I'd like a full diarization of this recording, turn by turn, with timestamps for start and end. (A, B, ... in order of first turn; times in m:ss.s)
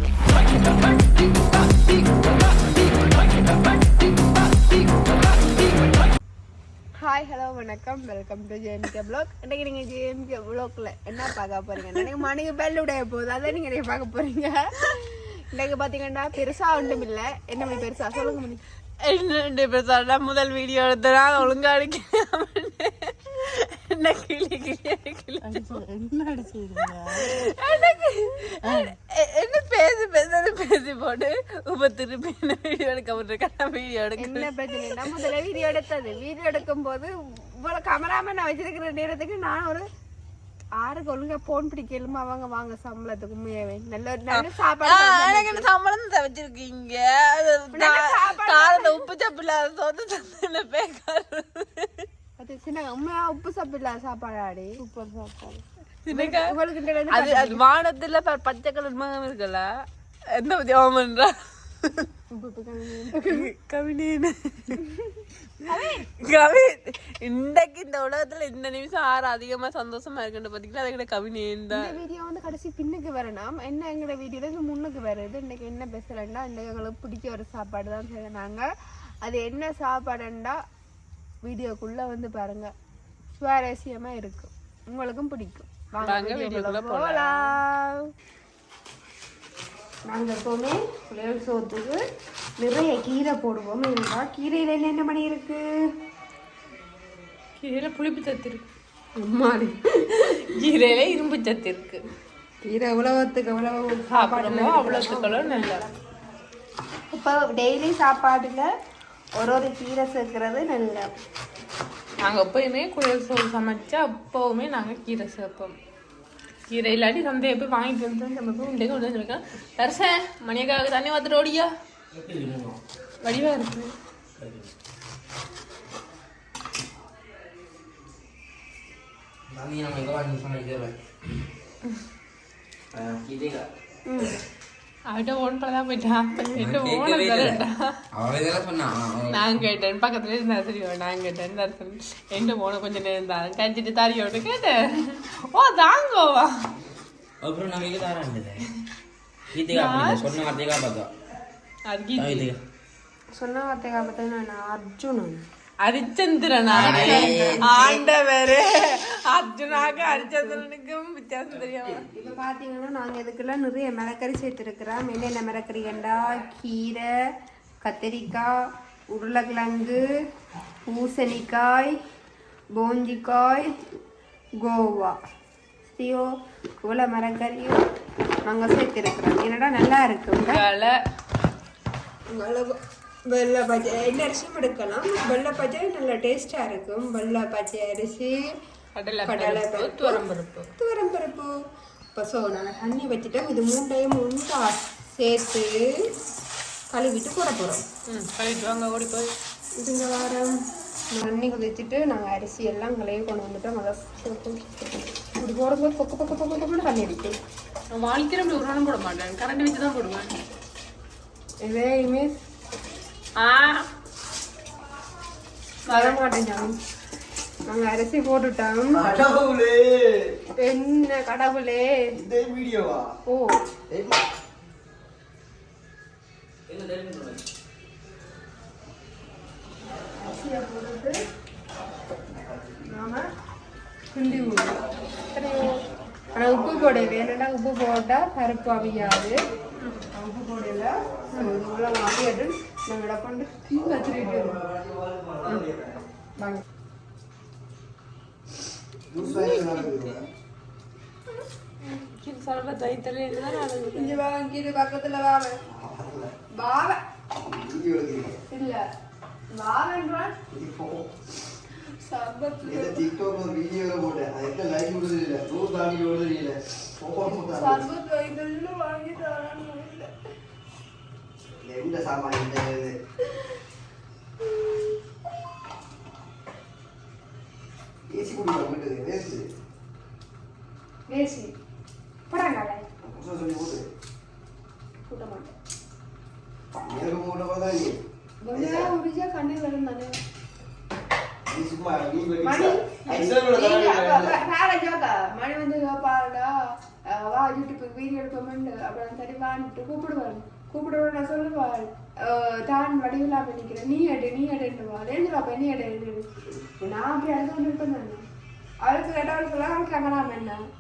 0:07.0-0:18.6 A
0:19.0-0:25.6 B
0:25.4-0:27.6 A
0:27.1-0:35.3 B
0:28.5-0:29.0 A
0:34.2-0:39.9 A
0:40.7-0:45.7 A
0:44.4-0:52.1 B
0:47.7-0:49.0 A
0:52.4-0:57.6 A
0:56.1-0:56.6 B
0:57.1-0:59.7 B
1:00.3-1:02.1 B
1:02.3-1:03.5 A
1:03.3-1:04.8 B
1:04.8-1:06.1 A
1:05.7-1:12.0 B
1:11.7-1:18.7 A
1:19.2-1:20.6 A
1:21.4-1:22.7 A
1:23.4-1:28.1 A
1:26.0-1:27.5 B
1:30.1-1:32.0 A
1:32.6-1:35.7 A
1:37.6-1:38.7 B
1:39.2-1:40.4 A
1:40.2-1:42.0 B
1:42.6-1:46.0 A
1:44.1-1:45.8 B
1:47.1-1:48.7 A
1:49.4-1:51.1 A
1:52.2-1:55.8 B
1:56.7-2:01.7 B
2:02.1-2:02.8 C
2:03.2-2:03.9 B
2:04.4-2:04.7 C
2:09.5-2:11.0 C
2:12.9-2:13.7 C
2:14.1-2:14.4 A
2:15.1-2:18.0 B
2:16.6-2:19.6 C
2:19.3-2:26.7 B
2:27.4-2:28.7 C
2:29.5-2:31.1 C
2:29.7-2:30.4 B
2:31.9-2:32.5 B
2:32.2-2:32.6 C
2:33.3-2:35.4 A
2:35.8-2:42.1 B
2:36.7-2:37.6 C
2:36.7-2:38.1 A
2:39.8-2:40.6 A
2:42.1-2:47.1 A
2:47.8-2:50.1 A
2:50.8-2:52.0 A
2:52.7-2:53.7 A
2:54.6-2:55.2 A
2:55.9-2:57.8 A
2:58.4-3:00.6 A
3:00.3-3:01.0 B
3:02.3-3:08.6 A
3:09.0-3:10.7 B
3:09.2-3:10.2 A
3:10.8-3:11.5 A
3:12.2-3:16.1 A
3:16.9-3:17.9 A
3:18.1-3:19.3 B
3:19.8-3:20.6 A
3:21.1-3:24.7 A
3:25.4-3:27.4 A
3:27.9-3:30.3 B
3:31.6-3:32.4 A
3:33.4-3:33.9 B
3:35.9-3:36.2 B
3:35.9-3:36.8 A
3:37.7-3:39.1 A
3:38.9-3:40.4 D
3:40.6-3:41.9 A
3:42.2-3:43.1 D
3:43.3-3:43.6 A
3:43.9-3:44.2 D
3:46.7-3:47.4 C
3:50.1-3:51.2 A
3:52.4-3:52.8 D
3:52.8-3:53.2 A
3:54.1-3:54.8 A
3:55.3-3:55.7 A
3:56.3-3:59.4 A
3:56.4-3:57.1 D
3:59.8-4:00.1 B
4:00.1-4:04.6 A
4:01.3-4:01.8 D
4:03.7-4:06.1 D
4:06.4-4:06.6 A
4:09.1-4:10.3 D
4:09.2-4:09.9 B
4:11.8-4:14.2 B
4:13.7-4:15.6 A
4:15.7-4:16.3 D
4:16.5-4:17.0 A
4:17.4-4:18.4 D
4:18.5-4:18.8 A
4:19.5-4:20.4 A
4:20.5-4:21.3 D
4:21.9-4:23.1 A
4:22.6-4:27.9 D
4:27.3-4:30.1 A
4:31.6-4:33.0 D
4:34.4-4:34.9 A
4:38.1-4:39.5 D
4:41.1-4:41.6 A
4:42.3-4:42.9 A
4:43.0-4:43.9 D
4:45.1-4:45.6 A
4:46.8-4:48.0 D
4:48.4-4:50.2 A
4:48.5-4:48.9 D
4:51.5-4:54.4 D
4:52.4-5:08.2 A
5:08.8-5:10.6 A